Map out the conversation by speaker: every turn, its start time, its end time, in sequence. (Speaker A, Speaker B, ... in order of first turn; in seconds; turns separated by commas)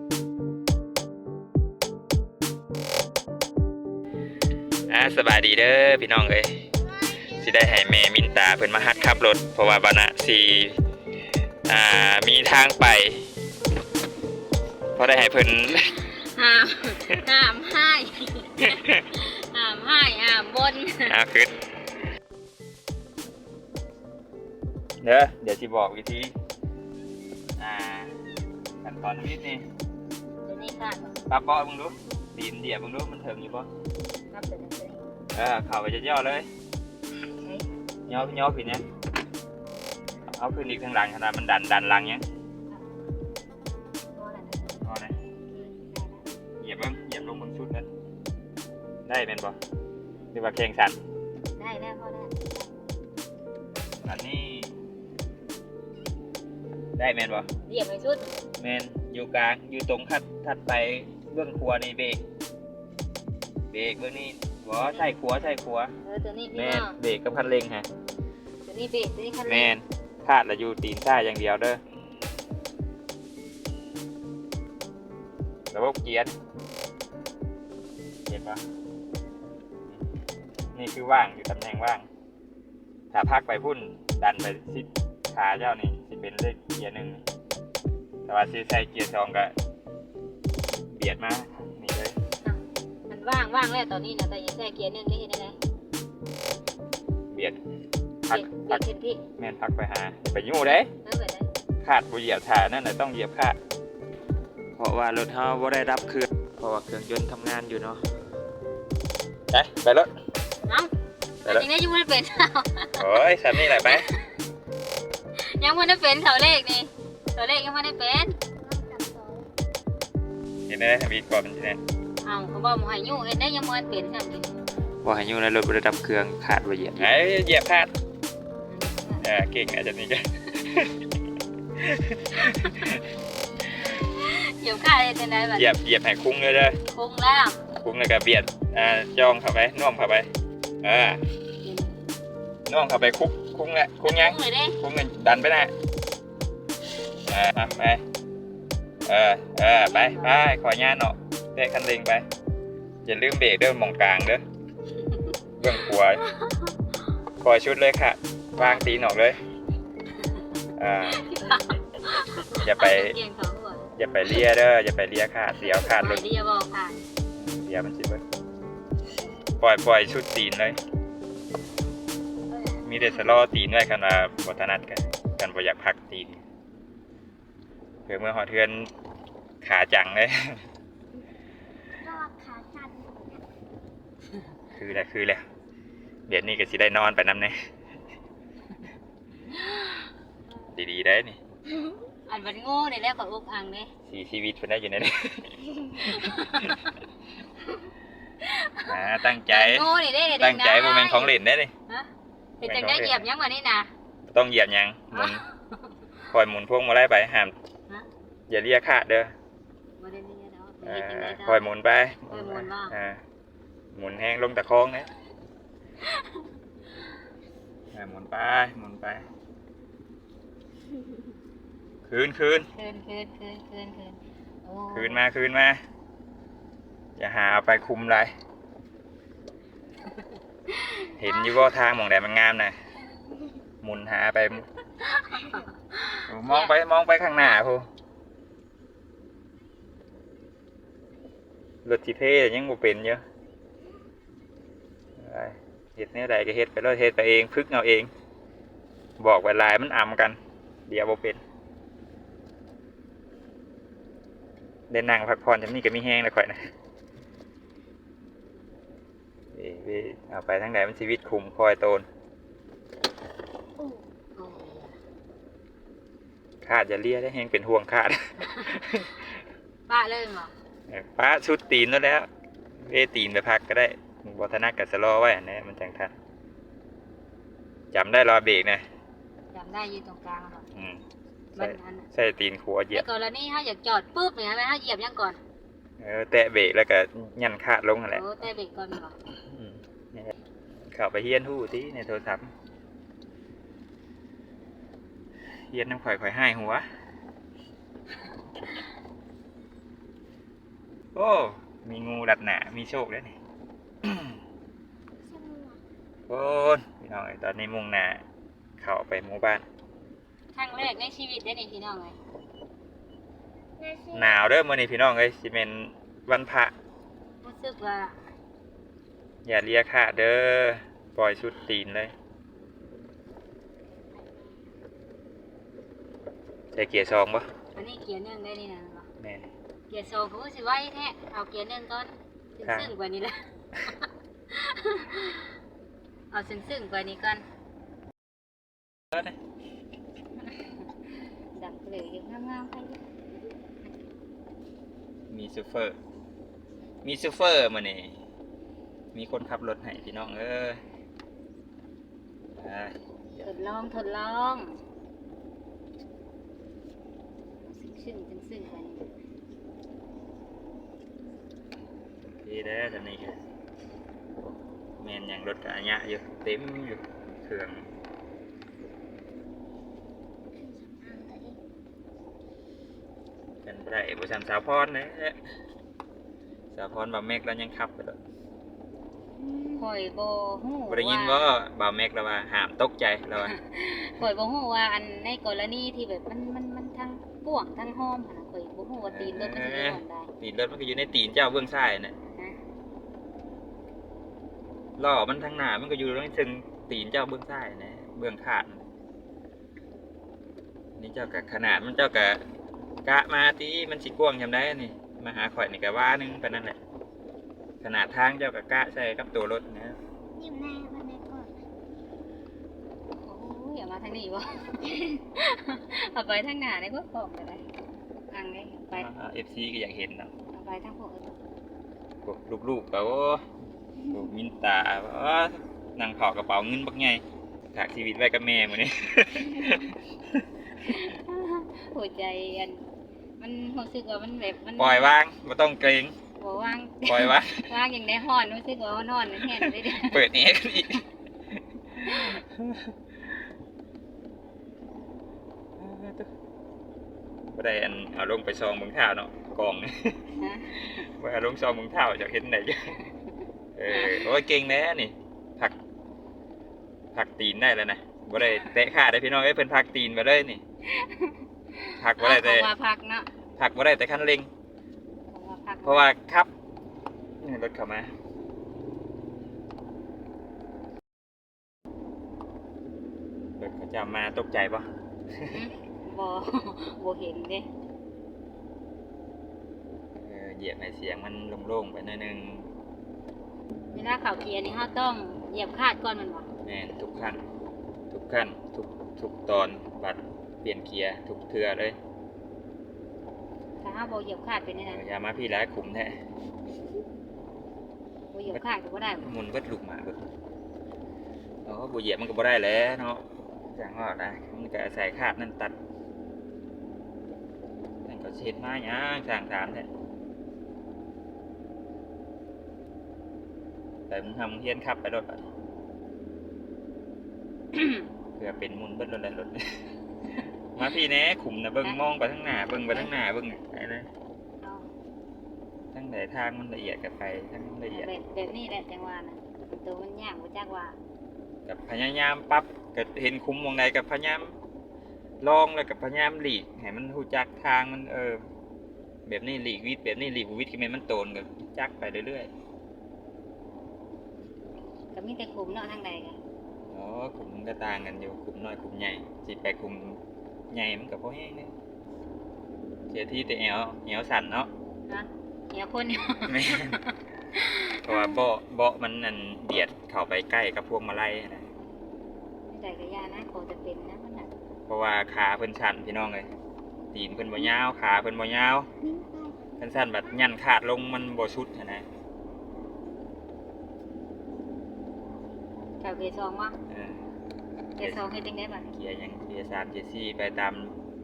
Speaker A: 4.9-6.7, Speaker A: 7.3-10.8, Speaker A: 11.7-13.3, Speaker A: 15.0-16.0, Speaker B: 16.2-21.2, Speaker A: 18.6-19.1, Speaker A: 21.1-21.6, Speaker A: 25.0-26.3, Speaker A: 27.6-28.1, Speaker A: 28.8-29.6, Speaker B: 30.4-31.3, Speaker A: 31.3-33.7, Speaker B: 34.3-35.0, Speaker A: 35.3-36.5, Speaker A: 38.1-38.9, Speaker A: 40.3-42.2, Speaker B: 44.1-44.8, Speaker A: 44.8-45.1, Speaker B: 45.5-46.2, Speaker A: 46.6-47.9, Speaker A: 49.1-49.6, Speaker A: 50.3-51.0, Speaker B: 51.6-52.7, Speaker A: 54.0-54.7, Speaker A: 57.0-57.5, Speaker B: 57.7-58.5, Speaker A: 58.6-62.2, Speaker A: 63.7-65.9, Speaker B: 66.0-67.0, Speaker A: 66.5-67.9, Speaker B: 68.7-69.7, Speaker A: 69.5-71.8, Speaker A: 75.7-76.3, Speaker A: 78.3-78.7, Speaker A: 80.7-82.1, Speaker A: 83.1-87.2, Speaker A: 88.3-89.5, Speaker A: 90.9-92.2, Speaker B: 92.4-95.6, Speaker A: 97.3-97.6, Speaker A: 98.3-98.8, Speaker B: 98.3-99.2, Speaker A: 99.4-100.9, Speaker B: 101.0-101.5, Speaker A: 101.8-103.6, Speaker A: 104.8-108.0, Speaker A: 109.5-110.1, Speaker B: 111.4-113.1, Speaker A: 113.0-114.1, Speaker B: 113.7-114.1, Speaker B: 115.4-118.4, Speaker C: 118.6-119.5, Speaker A: 120.7-121.8, Speaker B: 122.2-124.6, Speaker A: 125.0-127.9, Speaker B: 128.7-129.3, Speaker A: 129.2-131.1, Speaker A: 131.8-133.1, Speaker B: 133.8-135.8, Speaker A: 135.5-136.8, Speaker B: 136.9-137.6, Speaker A: 137.7-140.3, Speaker A: 140.8-141.2, Speaker B: 141.6-142.0, Speaker A: 142.7-145.7, Speaker B: 144.0-144.8, Speaker A: 147.2-148.0, Speaker A: 149.0-152.3, Speaker B: 149.8-150.3, Speaker A: 153.1-154.4, Speaker B: 155.1-155.3, Speaker A: 155.6-156.2, Speaker B: 156.2-156.7, Speaker A: 157.4-159.4, Speaker B: 158.6-158.8, Speaker A: 160.8-161.4, Speaker B: 161.1-164.4, Speaker A: 162.6-163.2, Speaker A: 164.0-166.2, Speaker B: 165.6-167.0, Speaker A: 167.4-168.2, Speaker A: 169.6-170.8, Speaker A: 172.8-176.4, Speaker A: 178.1-178.9, Speaker A: 179.6-180.7, Speaker C: 182.0-183.4, Speaker A: 184.7-185.4, Speaker A: 186.3-187.7, Speaker B: 189.6-190.0, Speaker A: 190.7-191.4, Speaker C: 191.7-192.0, Speaker B: 192.3-193.9, Speaker A: 194.1-196.8, Speaker B: 196.1-196.9, Speaker B: 198.4-201.3, Speaker A: 198.8-201.7, Speaker B: 202.6-203.9, Speaker A: 202.6-203.2, Speaker A: 204.3-205.4, Speaker B: 205.1-206.1, Speaker A: 206.3-207.6, Speaker A: 208.5-209.3, Speaker B: 210.0-211.6, Speaker A: 210.8-213.2, Speaker B: 212.3-213.0, Speaker A: 213.9-215.1, Speaker A: 217.9-219.3, Speaker A: 222.1-222.7, Speaker B: 222.7-225.2, Speaker A: 224.9-225.8, Speaker A: 227.2-228.3, Speaker B: 230.1-231.6, Speaker A: 231.2-232.8, Speaker A: 233.8-234.7, Speaker B: 235.1-236.8, Speaker A: 236.3-237.9, Speaker A: 241.8-243.2, Speaker A: 245.2-248.1, Speaker A: 249.2-251.4, Speaker A: 254.9-256.7, Speaker A: 259.5-262.1, Speaker B: 264.4-264.9, Speaker A: 266.6-269.4, Speaker B: 269.9-270.5, Speaker A: 270.9-276.1, Speaker A: 277.9-278.9, Speaker B: 279.5-280.7, Speaker A: 280.7-281.0, Speaker A: 281.5-283.1, Speaker B: 281.6-282.1, Speaker B: 282.9-285.4, Speaker A: 286.0-288.3, Speaker B: 288.1-289.2, Speaker A: 289.4-290.3, Speaker A: 290.9-292.5, Speaker A: 295.7-296.9, Speaker A: 301.1-303.4, Speaker A: 304.0-304.4, Speaker C: 305.2-305.8, Speaker A: 306.3-308.2, Speaker A: 308.8-309.6, Speaker B: 310.6-312.2, Speaker C: 313.8-314.5, Speaker A: 314.1-316.7, Speaker B: 317.4-318.2, Speaker A: 319.4-322.1, Speaker A: 326.7-327.5, Speaker B: 327.8-329.1, Speaker A: 329.2-329.5, Speaker B: 329.9-333.5, Speaker A: 332.6-332.9, Speaker B: 334.5-335.6, Speaker B: 336.3-337.4, Speaker A: 339.1-339.4, Speaker B: 341.2-343.0, Speaker A: 345.3-346.0, Speaker A: 347.0-348.2, Speaker A: 349.1-350.8, Speaker A: 352.6-353.5, Speaker B: 353.4-354.8, Speaker B: 357.6-359.1, Speaker A: 362.2-363.4, Speaker A: 364.4-367.9, Speaker C: 370.5-371.6, Speaker A: 373.6-375.4, Speaker A: 376.7-378.2, Speaker C: 379.4-379.8, Speaker B: 379.8-381.5, Speaker A: 380.9-383.5, Speaker B: 383.4-390.3, Speaker A: 389.1-392.2, Speaker A: 395.0-398.9, Speaker A: 401.0-402.4, Speaker A: 403.0-406.8, Speaker A: 407.8-410.0, Speaker C: 410.4-411.6, Speaker B: 413.2-417.6, Speaker B: 418.3-419.1, Speaker A: 418.9-420.3, Speaker B: 420.5-421.4, Speaker A: 422.2-423.5, Speaker A: 424.1-427.2, Speaker A: 427.7-430.5, Speaker B: 430.8-432.8, Speaker B: 433.4-435.1, Speaker A: 434.8-436.1, Speaker B: 436.4-440.3, Speaker A: 437.1-437.7, Speaker A: 439.4-441.0, Speaker A: 441.9-443.0, Speaker B: 442.0-442.4, Speaker A: 445.8-446.3, Speaker A: 447.5-453.0, Speaker B: 450.4-451.0, Speaker A: 453.8-455.8, Speaker B: 453.9-454.3, Speaker A: 457.1-460.6, Speaker B: 460.8-463.3, Speaker A: 462.0-462.7, Speaker A: 463.6-464.5, Speaker B: 465.3-466.1, Speaker A: 465.8-466.5, Speaker A: 467.4-468.1, Speaker A: 473.6-475.6, Speaker B: 475.5-477.7, Speaker A: 480.1-482.7, Speaker B: 483.9-486.5, Speaker A: 486.6-487.4, Speaker A: 488.1-492.0, Speaker B: 493.8-495.0, Speaker A: 494.8-496.2, Speaker B: 498.3-499.3, Speaker A: 498.5-500.2, Speaker A: 501.7-505.8, Speaker A: 508.1-509.9, Speaker A: 514.1-515.5, Speaker B: 517.7-518.0, Speaker A: 518.4-519.8, Speaker A: 520.7-524.1, Speaker B: 524.6-524.9, Speaker A: 525.9-528.1, Speaker B: 527.9-531.0, Speaker A: 531.7-534.5, Speaker A: 535.4-538.4, Speaker A: 539.3-542.5, Speaker B: 545.1-546.4, Speaker A: 546.9-551.7, Speaker A: 553.1-554.7, Speaker B: 555.1-558.4, Speaker A: 556.5-557.0, Speaker A: 558.0-561.7, Speaker B: 562.7-564.5, Speaker A: 564.9-566.5, Speaker A: 567.1-568.9, Speaker C: 569.0-569.8, Speaker A: 569.8-572.0, Speaker B: 576.0-576.8, Speaker A: 576.9-577.2, Speaker A: 578.0-578.2, Speaker B: 578.0-578.9, Speaker A: 578.9-580.9